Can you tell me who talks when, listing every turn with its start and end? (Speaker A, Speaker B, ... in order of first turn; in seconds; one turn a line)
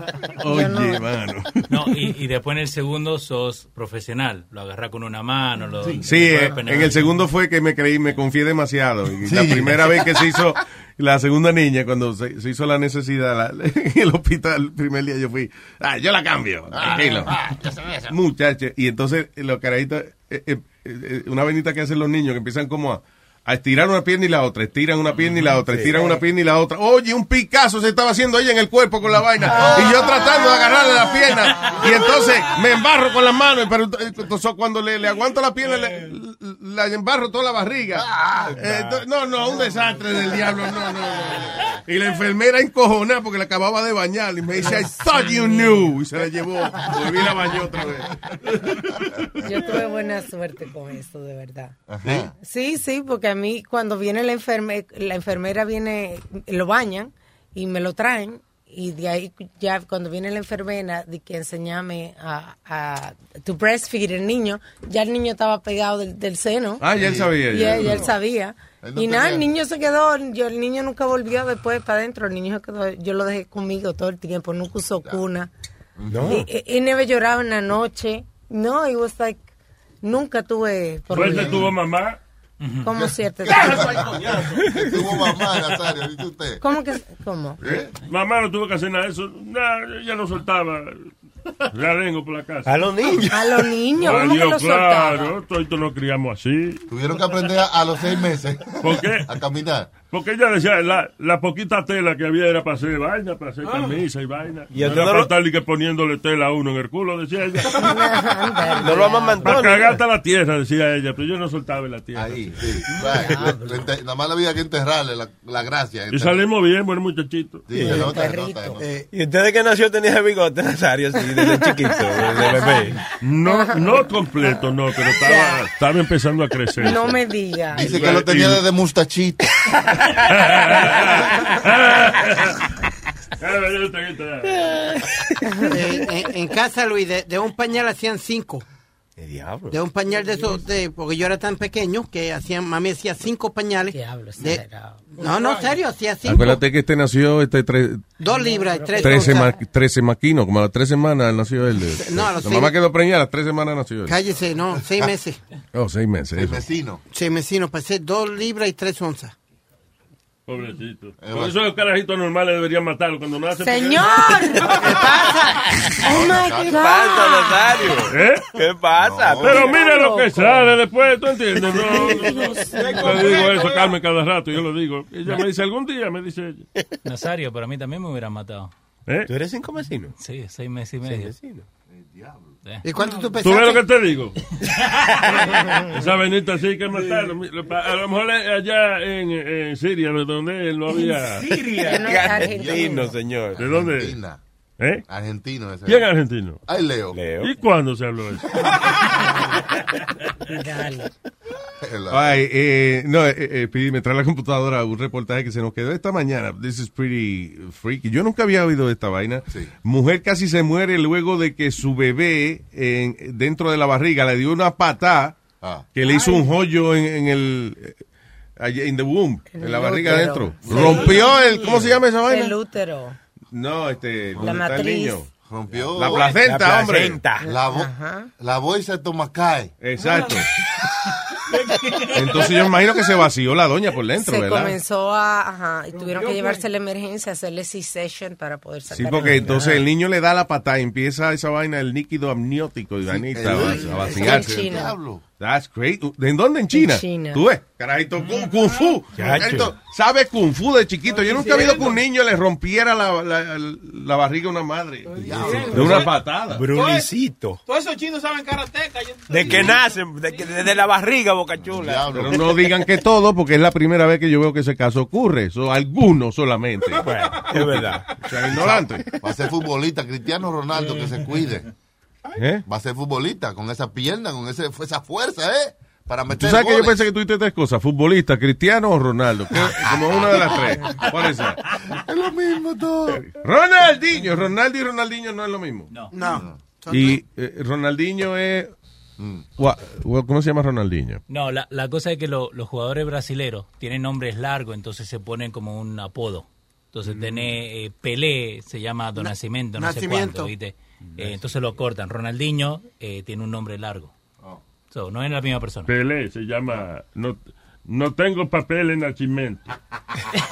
Speaker A: 0.4-1.6
Speaker B: 0.5-1.0
Speaker C: 1.7-7.2
Speaker A: 6.0-17.4
Speaker D: 9.2-10.1
Speaker D: 16.7-18.0
Speaker A: 18.1-49.5
Speaker E: 25.7-26.2
Speaker D: 29.8-30.0
Speaker E: 38.6-39.0
Speaker B: 45.2-45.7
Speaker B: 49.4-51.8
Speaker D: 51.9-52.3
Speaker B: 52.4-66.8
Speaker A: 66.8-68.1
Speaker D: 67.0-68.1
Speaker B: 67.5-75.5
Speaker D: 68.8-69.5
Speaker D: 76.0-76.4
Speaker E: 76.1-76.5
Speaker B: 76.3-79.4
Speaker B: 80.0-81.7
Speaker F: 81.1-82.2
Speaker D: 81.3-81.6
Speaker C: 82.6-82.9
Speaker B: 82.8-84.0
Speaker D: 83.5-86.6
Speaker G: 83.7-84.3
Speaker E: 84.6-85.0
Speaker B: 86.6-87.6
Speaker D: 87.6-87.9
Speaker F: 88.1-91.1
Speaker F: 91.7-93.2
Speaker E: 92.7-93.3
Speaker B: 93.3-95.3
Speaker F: 94.0-96.8
Speaker D: 96.9-99.9
Speaker F: 98.8-99.3
Speaker F: 100.1-108.1
Speaker G: 103.6-104.0
Speaker E: 104.7-105.3
Speaker B: 107.7-109.6
Speaker E: 108.8-110.0
Speaker F: 109.4-112.5
Speaker D: 112.1-116.4
Speaker F: 116.1-117.7
Speaker D: 117.7-118.9
Speaker B: 117.8-118.8
Speaker E: 118.8-123.0
Speaker B: 122.2-122.8
Speaker F: 123.2-127.2
Speaker B: 123.5-124.6
Speaker B: 125.2-125.6
Speaker B: 126.8-128.0
Speaker F: 127.7-128.6
Speaker D: 127.7-129.5
Speaker F: 130.1-132.6
Speaker F: 133.4-134.9
Speaker B: 135.4-135.8
Speaker H: 135.7-138.6
Speaker E: 139.2-139.8
Speaker H: 139.7-144.6
Speaker B: 143.9-145.1
Speaker H: 145.2-146.6
Speaker G: 145.2-145.7
Speaker A: 146.2-148.1
Speaker H: 148.2-149.5
Speaker B: 148.3-149.5
Speaker A: 149.0-154.2
Speaker H: 151.9-152.7
Speaker H: 154.1-155.4
Speaker A: 155.7-156.7
Speaker D: 156.3-157.0
Speaker H: 157.1-159.3
Speaker F: 160.5-164.7
Speaker D: 161.2-161.6
Speaker B: 163.6-165.3
Speaker H: 164.8-165.6
Speaker B: 165.9-167.7
Speaker D: 166.1-166.8
Speaker E: 166.7-169.6
Speaker F: 168.1-168.5
Speaker D: 169.0-169.7
Speaker F: 169.4-176.7
Speaker B: 169.6-170.7
Speaker B: 172.0-172.8
Speaker E: 172.7-173.9
Speaker C: 177.1-178.7
Speaker F: 179.1-179.3
Speaker E: 179.3-180.1
Speaker C: 180.2-181.3
Speaker E: 181.0-181.6
Speaker D: 181.9-182.5
Speaker H: 182.8-183.8
Speaker F: 183.4-184.4
Speaker F: 185.3-191.6
Speaker E: 191.1-193.6
Speaker B: 191.7-193.1
Speaker D: 192.5-192.8
Speaker F: 193.6-194.2
Speaker D: 193.6-194.4
Speaker F: 194.8-195.1
Speaker D: 195.1-196.1
Speaker F: 195.9-196.6
Speaker D: 196.7-197.2
Speaker E: 197.1-197.6
Speaker F: 197.4-198.7
Speaker B: 199.1-199.6
Speaker B: 200.4-201.1
Speaker D: 201.8-202.4
Speaker A: 202.1-215.4
Speaker D: 215.6-215.9
Speaker A: 215.9-218.0
Speaker B: 216.1-216.4
Speaker A: 218.6-222.6
Speaker B: 219.5-221.4
Speaker D: 220.7-221.1
Speaker B: 222.3-223.2
Speaker A: 223.5-225.3
Speaker B: 224.4-225.2
Speaker D: 225.5-226.3
Speaker A: 225.9-227.2
Speaker E: 226.1-227.4
Speaker B: 227.4-228.3
Speaker D: 227.4-229.7
Speaker A: 229.8-230.5
Speaker G: 230.0-230.3
Speaker G: 231.5-232.4
Speaker A: 232.1-234.8
Speaker B: 234.2-239.6
Speaker G: 235.9-236.6
Speaker A: 238.9-244.8
Speaker E: 239.4-239.8
Speaker D: 243.1-245.2
Speaker B: 243.6-244.9
Speaker A: 245.4-256.7
Speaker B: 246.7-247.4
Speaker G: 248.2-249.0
Speaker E: 249.1-249.8
Speaker G: 251.1-252.0
Speaker G: 255.1-256.1
Speaker D: 255.2-256.1
Speaker E: 255.7-257.6
Speaker G: 256.7-257.1
Speaker G: 257.7-260.7
Speaker E: 259.3-262.4
Speaker D: 261.6-262.5
Speaker A: 262.1-269.1
Speaker E: 267.0-268.2
Speaker D: 268.5-271.7
Speaker A: 272.4-272.6
Speaker D: 272.7-277.0
Speaker A: 276.4-281.6
Speaker D: 280.0-280.6
Speaker D: 281.9-283.2
Speaker A: 283.2-285.9
Speaker H: 286.1-287.2
Speaker D: 286.3-286.6
Speaker A: 286.9-288.7
Speaker D: 289.2-289.4
Speaker A: 289.6-291.2
Speaker C: 291.3-304.1
Speaker H: 299.2-300.5
Speaker E: 301.1-301.8
Speaker C: 304.9-305.9
Speaker F: 305.9-309.7